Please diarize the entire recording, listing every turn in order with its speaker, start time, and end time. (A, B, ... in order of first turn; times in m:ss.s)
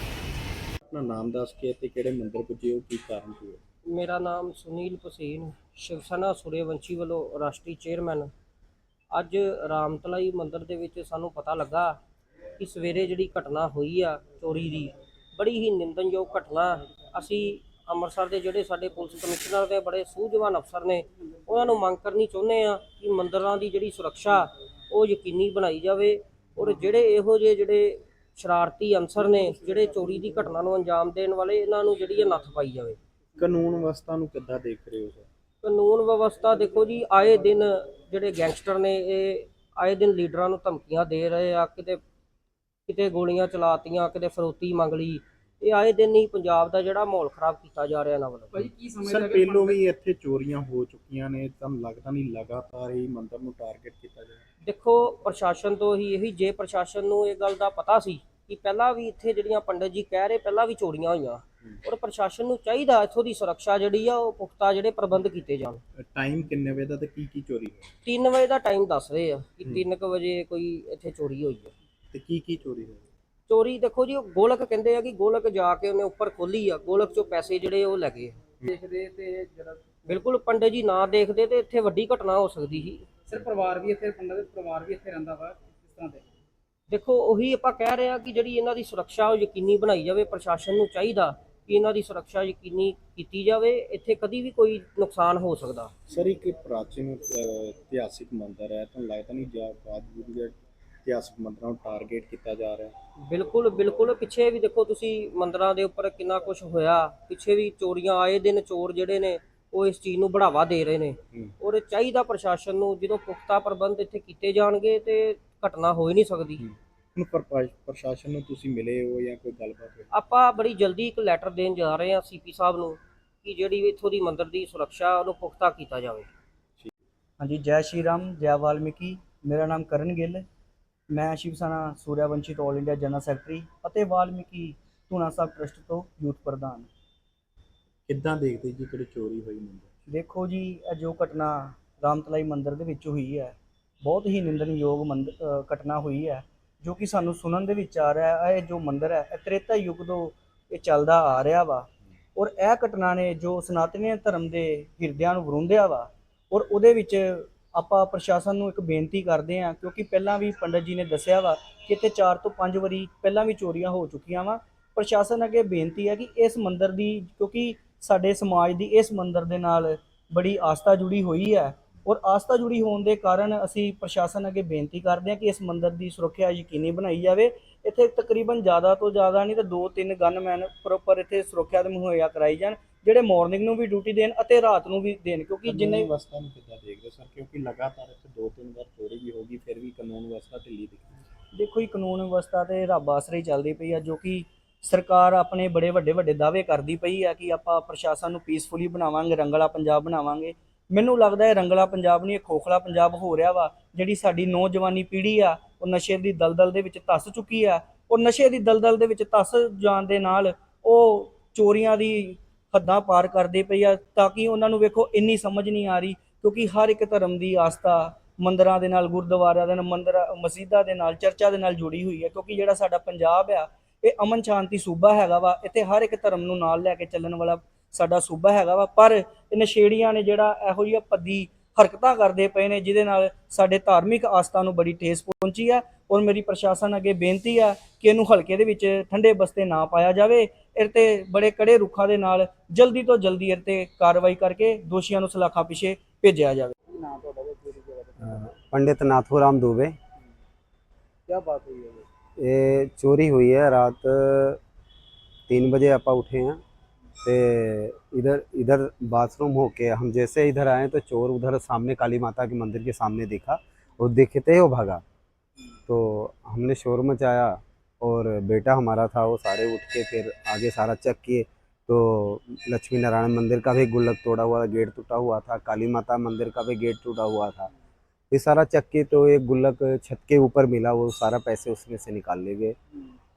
0:00.9-0:03.6 A
0:03.9-0:08.3 B
0:09.1-0:12.0 B
0:12.6-0:33.0 B
0:33.4-0:35.3 A
0:35.6-0:42.0 B
0:42.9-0:48.7 B
0:48.5-0:49.8 C
0:49.0-0:54.5 A
0:54.6-1:05.8 B
1:06.0-1:07.9 A
1:08.0-1:11.7 B
1:12.1-1:13.0 A
1:13.5-1:18.4 B
1:18.7-1:20.2 C
1:20.1-1:23.1 B
1:23.3-1:26.2 C
1:26.9-1:35.9 B
1:36.1-1:42.9 A
1:43.3-1:56.6 B
1:56.6-2:00.1 A
2:00.1-2:06.3 B
2:07.4-2:10.4 D
2:11.1-2:16.9 D
2:18.1-2:19.9 A
2:20.1-3:06.1 D
3:05.7-3:11.2 A
3:11.5-4:06.7 D
4:06.9-4:08.5 C
4:08.2-4:10.0 E
4:11.3-4:12.0 C
4:12.4-4:14.6 E
4:15.5-4:16.6 E
4:17.2-4:25.0 E
4:25.9-4:37.7 E
4:38.3-4:42.8 E